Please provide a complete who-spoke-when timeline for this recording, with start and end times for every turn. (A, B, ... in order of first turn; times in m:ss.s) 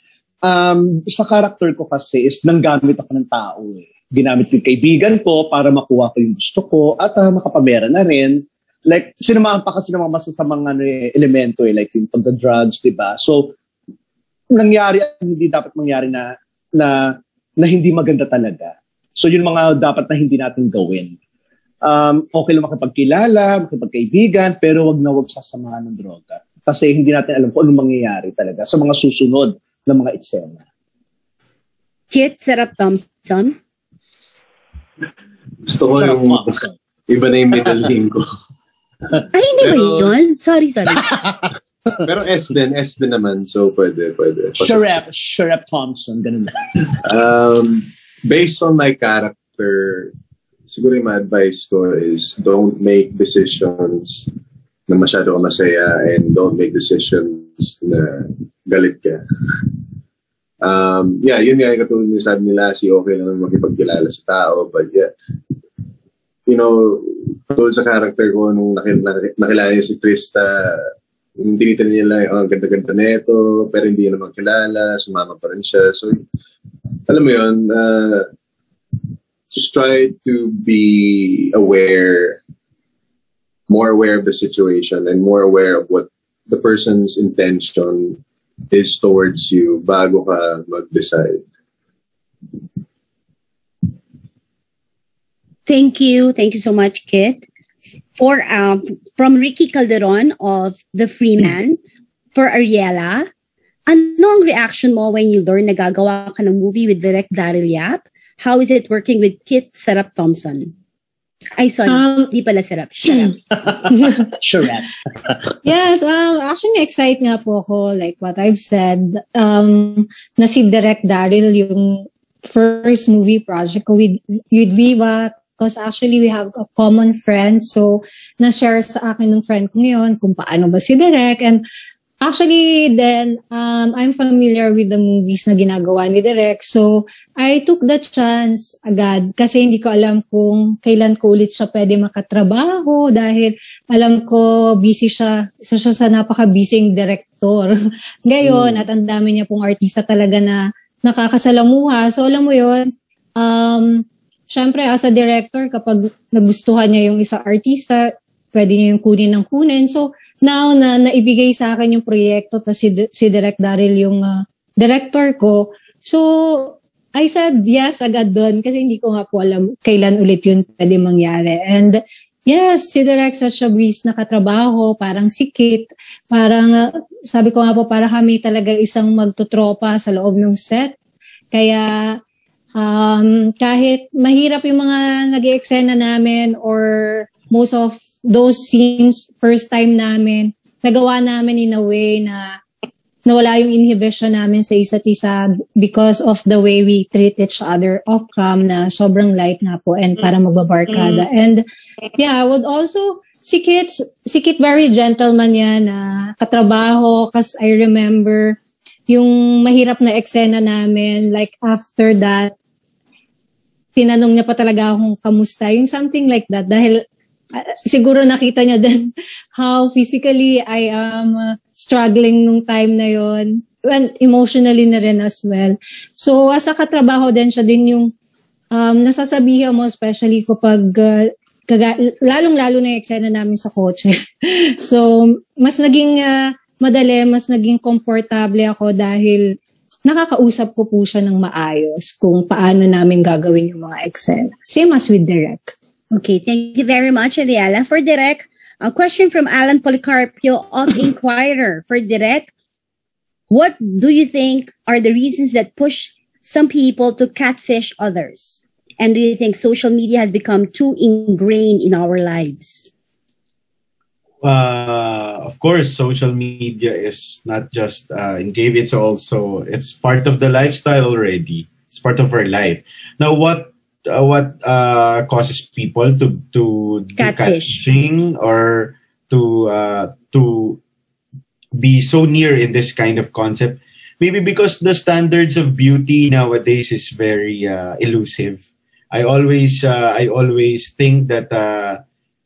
0:00.4-0:13.6 A
0:14.5-0:21.2 A
0:21.8-0:30.6 A
0:32.1-0:33.6 B
0:35.6-0:38.3 C
0:35.9-0:36.7 A
0:39.3-0:41.1 B
0:39.6-0:40.2 C
0:41.0-0:41.5 A
0:42.0-0:44.9 C
0:44.6-0:46.5 A
0:47.0-0:50.1 C
0:50.7-0:54.3 C
0:54.9-0:59.8 C
1:00.6-1:05.1 C
1:06.5-1:16.2 C
1:17.1-1:18.3 C
1:19.5-1:22.4 C
1:23.7-1:28.2 C
1:28.7-1:31.4 C
1:35.7-1:37.5 B
1:38.2-1:41.8 B
1:42.4-1:43.3 B
1:43.9-1:50.7 B
1:51.6-1:53.6 B
1:51.9-1:52.3 D
1:53.5-1:55.5 A
1:53.9-1:54.3 D
1:55.6-2:11.6 D
2:12.2-2:27.7 D
2:28.3-3:01.0 D
3:01.5-3:02.2 D
3:02.8-3:12.6 D
3:13.3-3:21.6 D
3:22.2-3:32.5 D
3:34.0-3:37.0 D
3:37.5-3:48.1 D
3:48.7-3:59.5 D
4:00.1-4:05.7 D
4:06.1-4:12.5 B
4:13.5-4:22.9 B
4:24.4-4:40.8 E
4:37.2-4:37.8 B
4:41.8-4:52.0 E